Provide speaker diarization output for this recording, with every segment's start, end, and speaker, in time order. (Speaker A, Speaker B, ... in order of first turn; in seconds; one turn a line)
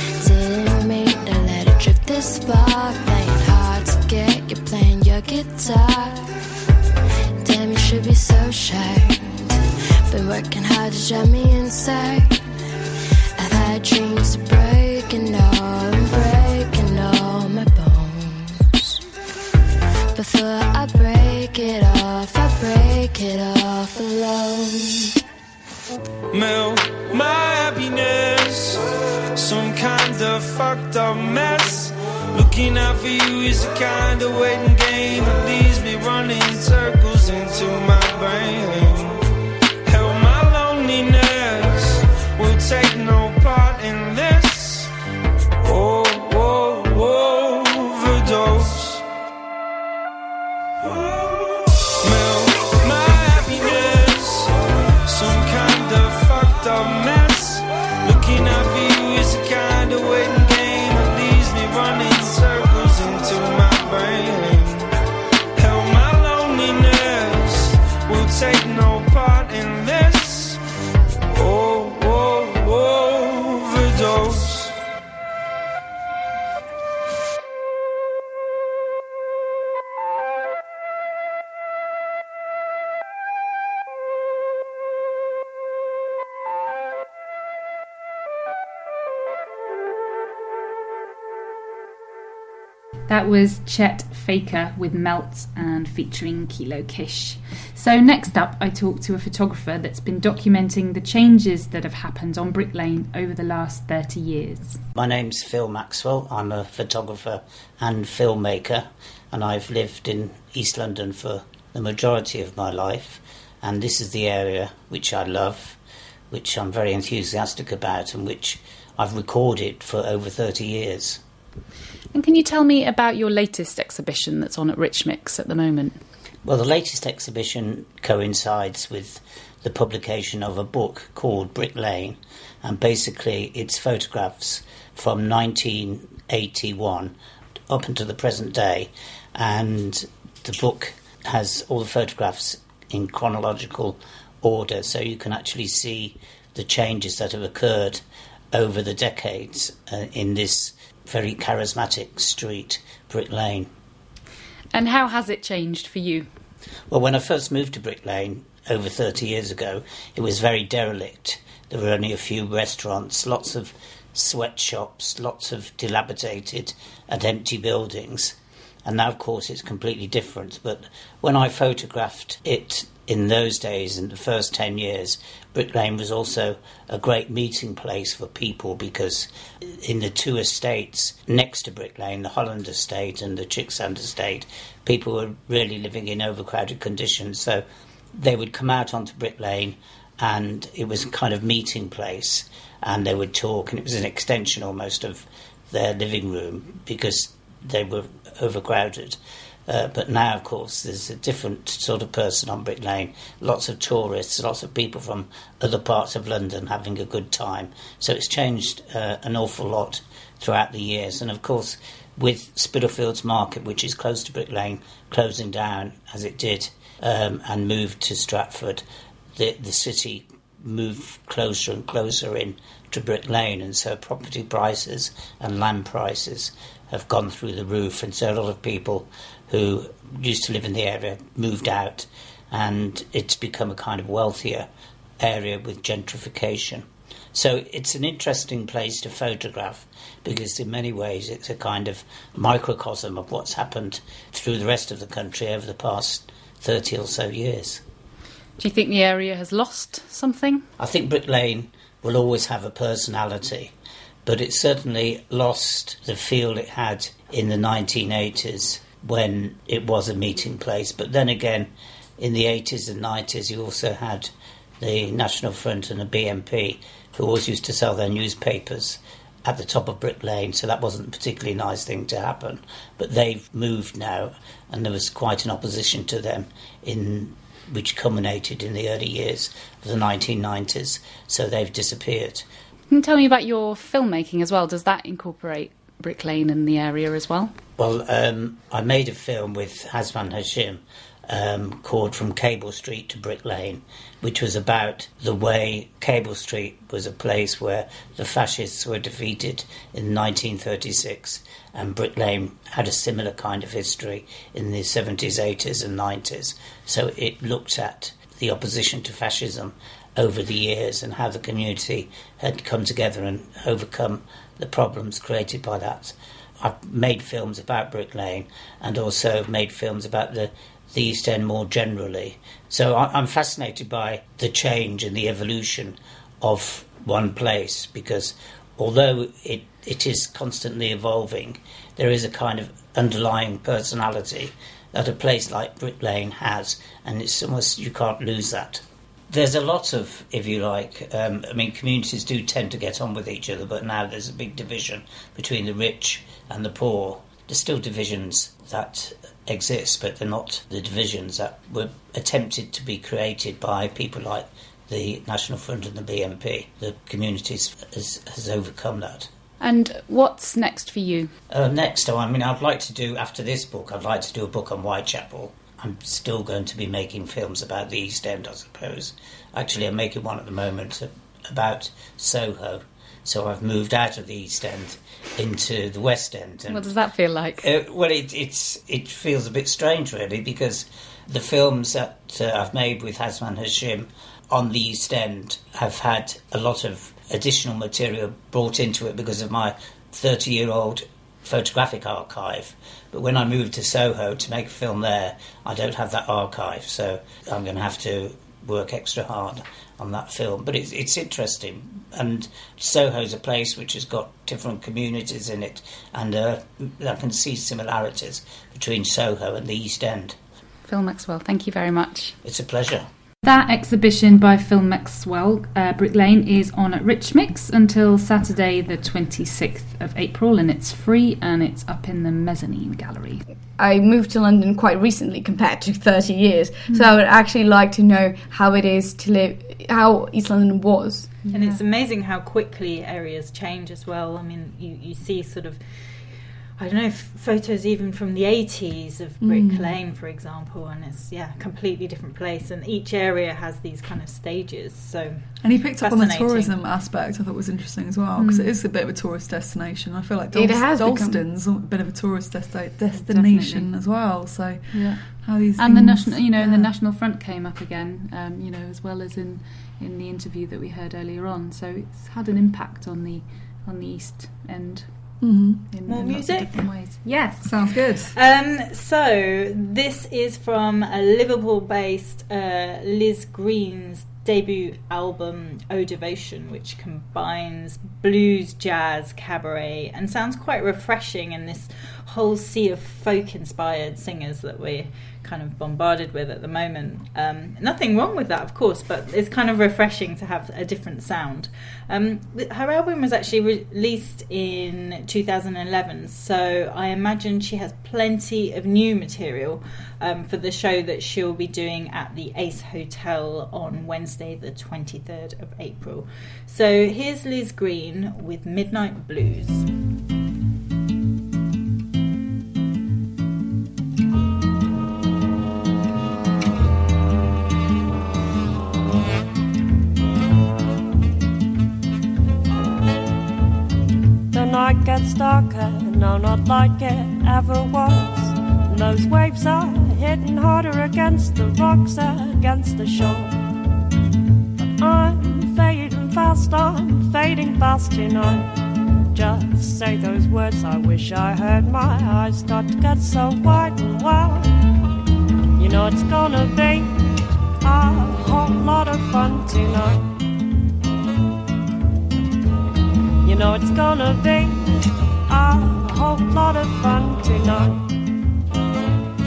Speaker A: 0.2-6.3
Speaker A: 7.4-12.4
Speaker A: 13.4-18.9
Speaker A: 20.1-25.1
Speaker B: 26.3-39.2
Speaker B: 39.8-44.9
Speaker B: 45.6-49.0
Speaker B: 50.8-54.5
Speaker B: 55.0-64.9
Speaker B: 65.5-70.6
Speaker B: 71.3-74.8
Speaker C: 93.1-104.8
Speaker D: 104.9-115.8
Speaker D: 116.3-121.2
Speaker C: 122.1-126.0
Speaker D: 126.4-137.1
Speaker D: 137.7-153.7
Speaker C: 154.7-156.3
Speaker D: 156.9-218.8
Speaker D: 219.3-234.7
Speaker D: 235.2-247.8
Speaker C: 248.6-250.7
Speaker D: 250.8-253.7
Speaker D: 254.2-282.5
Speaker C: 282.9-287.6
Speaker D: 287.8-359.3
Speaker C: 359.6-361.3
Speaker D: 361.5-376.9
Speaker C: 376.7-377.7
Speaker D: 377.6-410.4
Speaker C: 410.9-412.3
Speaker D: 412.4-413.1
Speaker C: 413.4-423.4
Speaker E: 423.8-431.3
Speaker C: 431.4-431.8
Speaker F: 431.5-436.2
Speaker F: 436.8-446.7
Speaker G: 439.4-440.0
Speaker G: 445.6-456.9
Speaker C: 448.4-448.7
Speaker E: 450.5-451.4
Speaker C: 453.1-453.9
Speaker C: 455.8-465.1
Speaker G: 465.4-465.9
Speaker C: 465.9-467.7
Speaker F: 466.1-466.8
Speaker G: 467.6-468.4
Speaker F: 468.3-509.9
Speaker H: 524.5-533.6
Speaker H: 534.8-538.7
Speaker H: 539.3-544.8
Speaker H: 545.8-550.3
Speaker H: 553.4-558.0